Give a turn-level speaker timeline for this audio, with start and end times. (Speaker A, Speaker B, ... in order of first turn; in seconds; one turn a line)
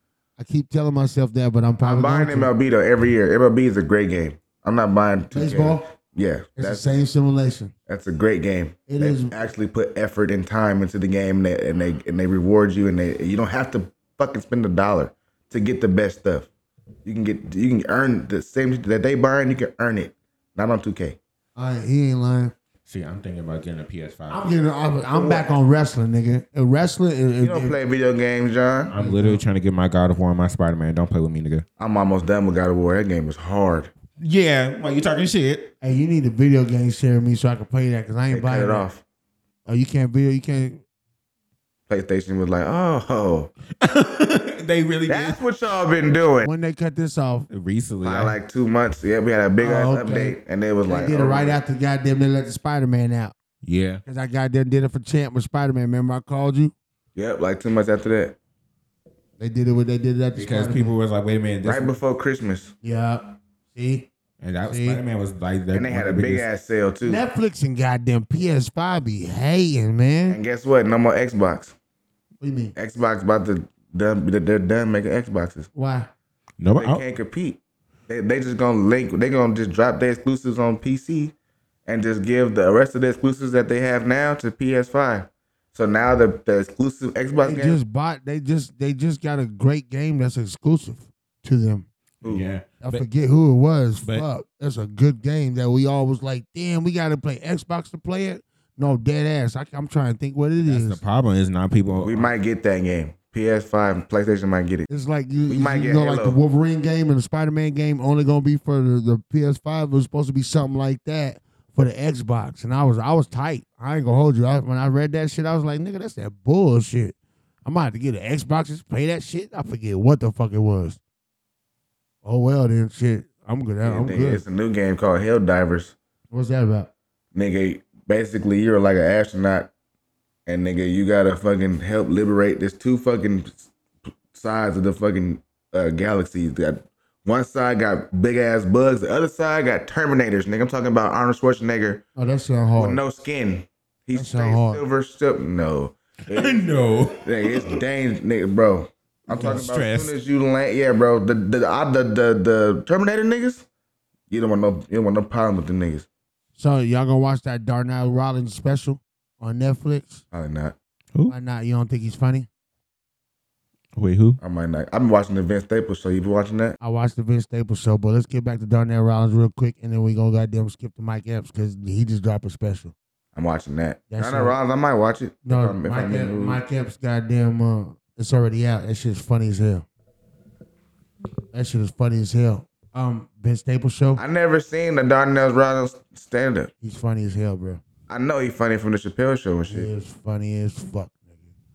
Speaker A: 0.4-2.5
Speaker B: 1.8-7.0
Speaker A: 5.3-5.9
Speaker A: 6.6-7.7
Speaker B: 7.9-16.5
Speaker A: 8.9-9.3
Speaker B: 17.0-21.2
Speaker A: 21.6-22.5
Speaker C: 22.9-24.5
Speaker A: 24.3-27.8
Speaker B: 25.1-25.5
Speaker B: 27.4-28.9
Speaker C: 28.9-31.6
Speaker A: 29.0-29.4
Speaker B: 31.8-33.9
Speaker C: 34.2-35.7
Speaker A: 35.8-38.9
Speaker B: 38.3-39.0
Speaker A: 39.7-40.8
Speaker B: 41.9-43.5
Speaker C: 43.8-45.4
Speaker B: 45.1-46.5
Speaker A: 46.4-47.5
Speaker C: 47.5-48.3
Speaker B: 48.0-51.6
Speaker A: 49.6-53.3
Speaker C: 53.6-54.0
Speaker A: 54.0-56.7
Speaker B: 57.1-58.4
Speaker A: 59.4-61.0
Speaker C: 60.3-61.9
Speaker B: 61.6-62.7
Speaker A: 62.8-64.1
Speaker C: 64.4-66.5
Speaker A: 64.6-65.0
Speaker B: 65.7-67.2
Speaker A: 67.0-70.4
Speaker B: 70.3-71.7
Speaker A: 72.4-72.7
Speaker B: 72.7-75.7
Speaker A: 75.7-76.1
Speaker C: 76.6-77.0
Speaker B: 76.7-81.3
Speaker B: 81.8-87.8
Speaker A: 87.4-91.9
Speaker C: 92.2-93.0
Speaker A: 92.8-101.0
Speaker C: 94.0-94.3
Speaker C: 100.6-102.3
Speaker B: 101.9-104.9
Speaker A: 104.9-121.0
Speaker B: 105.5-106.4
Speaker A: 122.2-124.4
Speaker B: 123.8-125.9
Speaker A: 126.3-126.9
Speaker B: 127.3-129.7
Speaker B: 130.4-133.7
Speaker B: 134.3-142.0
Speaker A: 142.2-143.0
Speaker B: 142.8-146.7
Speaker A: 144.1-144.8
Speaker C: 146.3-147.8
Speaker B: 147.2-153.7
Speaker C: 149.3-150.1
Speaker A: 149.3-149.6
Speaker B: 154.3-156.1
Speaker A: 156.6-160.2
Speaker B: 160.3-160.8
Speaker A: 161.3-162.5
Speaker C: 163.9-164.4
Speaker B: 164.4-166.8
Speaker A: 166.8-172.9
Speaker B: 173.3-176.6
Speaker A: 174.1-174.6
Speaker A: 175.4-179.8
Speaker A: 181.5-184.2
Speaker B: 184.2-186.7
Speaker A: 186.8-187.8
Speaker B: 188.1-189.9
Speaker A: 189.7-191.4